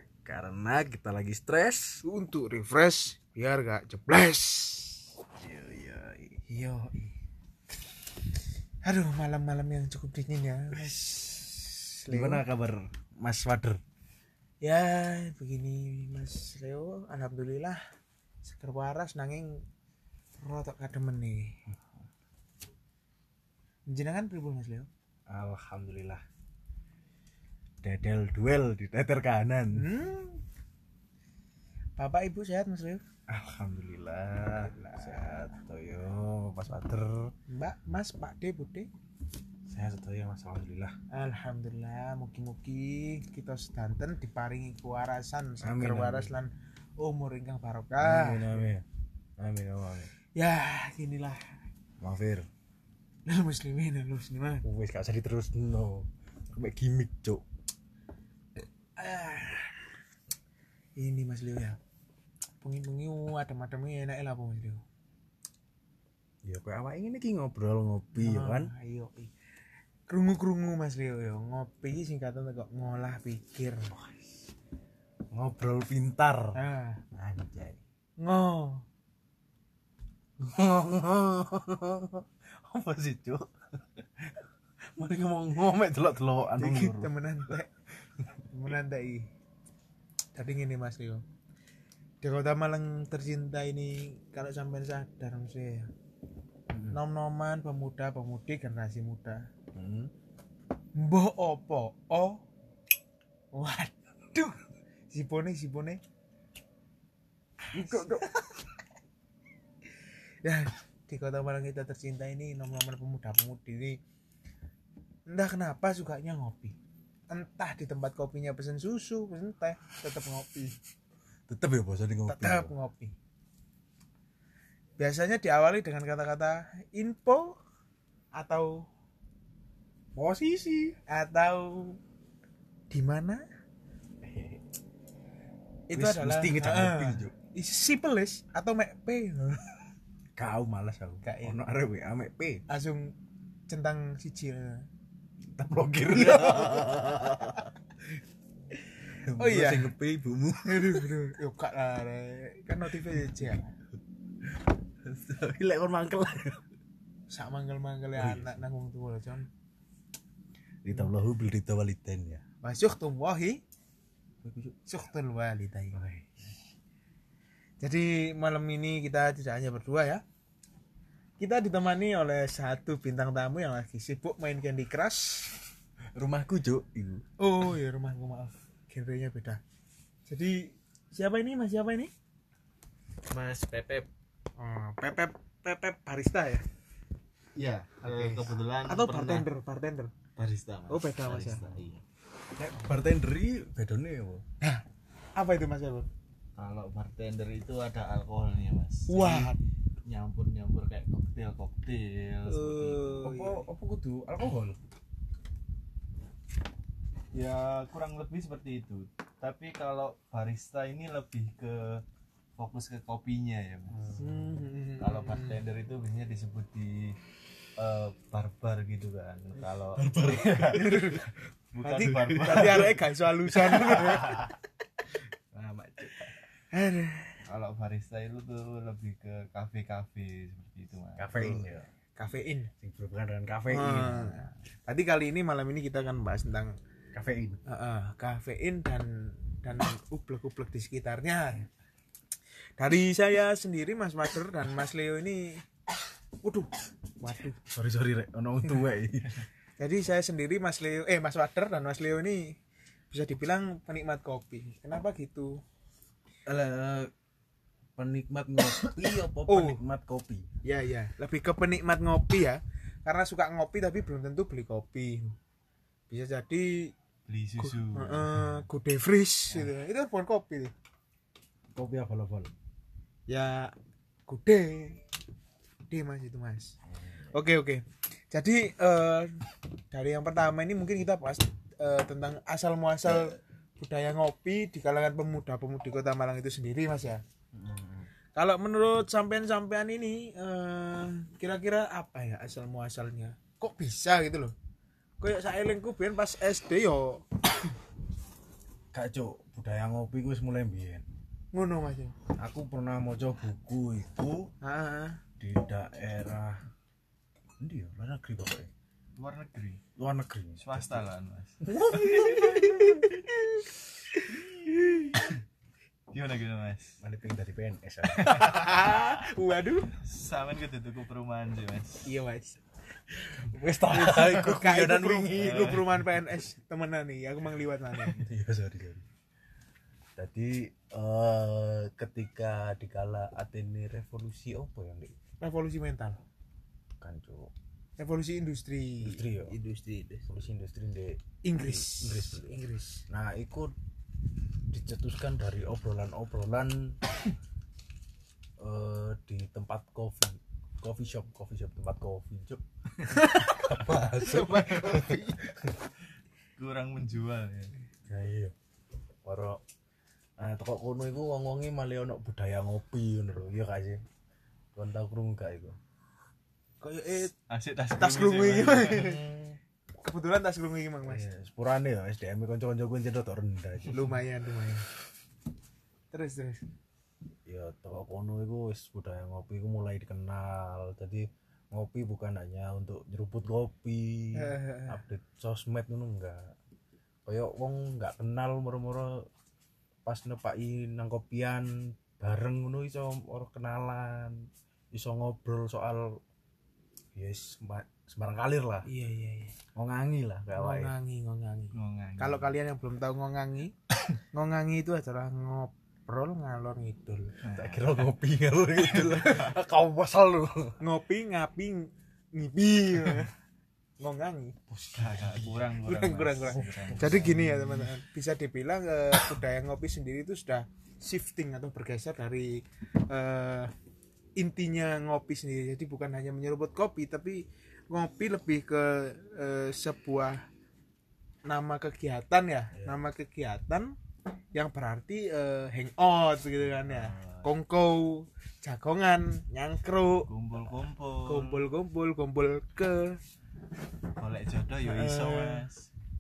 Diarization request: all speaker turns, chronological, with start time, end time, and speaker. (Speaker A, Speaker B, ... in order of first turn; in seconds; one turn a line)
Speaker A: 0.2-2.0
Speaker B: 2.0-5.0
Speaker A: 5.4-6.4
Speaker B: 6.5-7.1
Speaker B: 8.8-12.4
Speaker A: 12.1-13.8
Speaker B: 14.6-17.8
Speaker B: 18.4-19.6
Speaker B: 20.4-21.6
Speaker B: 23.9-24.9
Speaker A: 25.3-26.2
Speaker A: 27.8-29.9
Speaker B: 29.7-30.4
Speaker B: 32.0-33.0
Speaker A: 33.3-37.3
Speaker B: 34.4-35.5
Speaker B: 37.5-38.9
Speaker A: 39.7-41.0
Speaker B: 41.1-48.6
Speaker A: 45.6-46.3
Speaker A: 48.0-48.8
Speaker A: 49.4-50.1
Speaker B: 50.3-51.4
Speaker A: 52.0-52.5
Speaker B: 53.2-54.6
Speaker A: 54.6-57.4
Speaker B: 59.0-59.7
Speaker B: 61.0-61.8
Speaker B: 62.6-64.8
Speaker A: 66.4-68.7
Speaker B: 68.1-69.3
Speaker B: 70.1-73.9
Speaker A: 73.9-74.3
Speaker A: 75.3-76.6
Speaker B: 76.5-77.0
Speaker A: 77.1-77.8
Speaker B: 78.2-78.8
Speaker A: 80.4-84.4
Speaker A: 85.0-87.1
Speaker B: 86.5-87.7
Speaker B: 88.5-89.3
Speaker B: 90.3-91.2
Speaker B: 92.2-95.9
Speaker A: 96.7-97.0
Speaker B: 96.9-99.5
Speaker A: 99.7-100.1
Speaker B: 101.0-102.4
Speaker B: 103.5-106.0
Speaker B: 107.7-108.5
Speaker A: 107.7-108.3
Speaker B: 110.4-114.0
Speaker B: 115.3-116.8
Speaker B: 117.3-120.8
Speaker A: 121.5-122.7
Speaker B: 122.3-123.2
Speaker B: 125.0-127.6
Speaker B: 128.3-128.9
Speaker A: 130.1-131.0
Speaker B: 131.1-132.0
Speaker B: 132.9-133.4
Speaker A: 134.2-134.6
Speaker B: 135.9-139.8
Speaker A: 135.9-137.3
Speaker A: 140.3-142.6
Speaker B: 141.2-141.6
Speaker B: 142.7-143.1
Speaker B: 143.7-144.8
Speaker A: 145.4-147.7
Speaker B: 146.1-147.0
Speaker A: 149.1-151.1
Speaker B: 149.4-149.9
Speaker B: 150.6-153.7
Speaker A: 154.4-156.6
Speaker B: 157.3-159.5
Speaker A: 158.2-158.6
Speaker A: 160.8-162.4
Speaker B: 162.6-163.6
Speaker A: 164.4-164.8
Speaker B: 164.9-166.0
Speaker A: 165.9-166.5
Speaker B: 167.8-170.2
Speaker B: 171.4-175.5
Speaker A: 176.1-177.2
Speaker B: 177.4-179.6
Speaker B: 180.3-182.1
Speaker C: 183.3-184.1
Speaker B: 184.6-186.6
Speaker C: 187.5-189.5
Speaker B: 188.0-190.1
Speaker C: 190.3-192.0
Speaker B: 190.9-191.6
Speaker A: 192.5-194.4
Speaker B: 195.3-196.1
Speaker C: 196.6-199.5
Speaker B: 199.1-199.6
Speaker C: 200.0-203.2
Speaker B: 202.5-203.6
Speaker A: 203.2-204.8
Speaker C: 207.3-212.0
Speaker C: 212.6-214.0
Speaker A: 213.9-214.7
Speaker B: 214.2-215.6
Speaker C: 215.0-217.2
Speaker C: 217.8-223.0
Speaker A: 219.9-221.2
Speaker B: 220.7-221.3
Speaker B: 221.8-224.5
Speaker A: 222.0-222.9
Speaker A: 223.9-224.3
Speaker C: 224.0-224.2
Speaker A: 225.5-226.3
Speaker B: 226.7-227.4
Speaker C: 227.4-231.6
Speaker A: 231.2-231.9
Speaker B: 232.2-232.7
Speaker A: 232.8-234.4
Speaker B: 233.7-236.8
Speaker A: 237.1-237.6
Speaker B: 237.7-241.7
Speaker B: 242.8-245.7
Speaker B: 246.4-246.7
Speaker B: 247.2-247.6
Speaker A: 247.7-249.4
Speaker B: 249.8-252.6
Speaker B: 253.1-255.6
Speaker A: 256.4-257.1
Speaker A: 258.0-260.5
Speaker B: 259.4-259.8
Speaker B: 260.6-265.3
Speaker B: 266.1-266.9
Speaker C: 267.3-268.3
Speaker B: 267.6-270.7
Speaker A: 271.7-272.5
Speaker B: 273.3-273.7
Speaker B: 274.3-275.0
Speaker B: 275.9-276.7
Speaker A: 277.0-277.3
Speaker B: 277.3-287.2
Speaker A: 283.1-283.3
Speaker A: 287.5-288.1
Speaker B: 288.3-294.5
Speaker B: 295.2-297.2
Speaker A: 298.9-301.0
Speaker B: 301.5-302.1
Speaker A: 302.4-304.5
Speaker B: 304.6-305.2
Speaker A: 305.4-306.6
Speaker A: 307.6-308.7
Speaker C: 309.2-309.8
Speaker A: 309.9-311.0
Speaker C: 310.6-311.6
Speaker A: 311.6-312.8
Speaker B: 311.8-315.1
Speaker C: 316.1-317.0
Speaker A: 317.0-318.6
Speaker B: 318.1-319.9
Speaker C: 318.3-319.2
Speaker C: 319.9-322.1
Speaker B: 322.0-322.6
Speaker A: 323.3-325.8
Speaker B: 323.9-328.2
Speaker C: 325.3-325.9
Speaker A: 328.0-329.0
Speaker A: 330.2-335.1
Speaker B: 335.4-336.2
Speaker A: 337.0-337.5
Speaker B: 338.0-340.3
Speaker A: 339.0-339.5
Speaker A: 340.3-342.5
Speaker B: 341.4-343.1
Speaker A: 343.1-343.7
Speaker A: 344.7-347.0
Speaker A: 348.6-355.7
Speaker B: 353.1-355.4
Speaker C: 356.6-357.7
Speaker A: 358.1-358.5
Speaker A: 359.2-359.6
Speaker A: 360.4-364.0
Speaker A: 364.7-365.8
Speaker B: 366.8-367.3
Speaker C: 367.5-369.2
Speaker B: 367.9-369.2
Speaker A: 368.9-369.6
Speaker B: 370.0-371.3
Speaker A: 371.0-374.1
Speaker B: 373.9-374.9
Speaker B: 376.1-376.6
Speaker A: 377.4-386.5
Speaker B: 384.3-385.0
Speaker A: 387.2-389.3
Speaker A: 390.0-396.2
Speaker A: 397.1-398.9
Speaker B: 398.8-399.5
Speaker A: 399.7-400.9
Speaker B: 400.6-407.4
Speaker C: 401.7-402.5
Speaker C: 407.4-407.9
Speaker A: 407.5-410.8
Speaker B: 410.8-413.3
Speaker B: 414.0-414.6
Speaker A: 414.7-415.7
Speaker C: 414.9-417.5
Speaker B: 415.8-423.7
Speaker A: 416.5-417.9
Speaker B: 424.4-430.4
Speaker B: 431.4-433.9
Speaker A: 432.7-433.0
Speaker B: 434.5-440.3
Speaker C: 436.7-437.5
Speaker C: 440.3-441.7
Speaker B: 441.2-443.2
Speaker C: 444.1-445.9
Speaker B: 444.8-445.6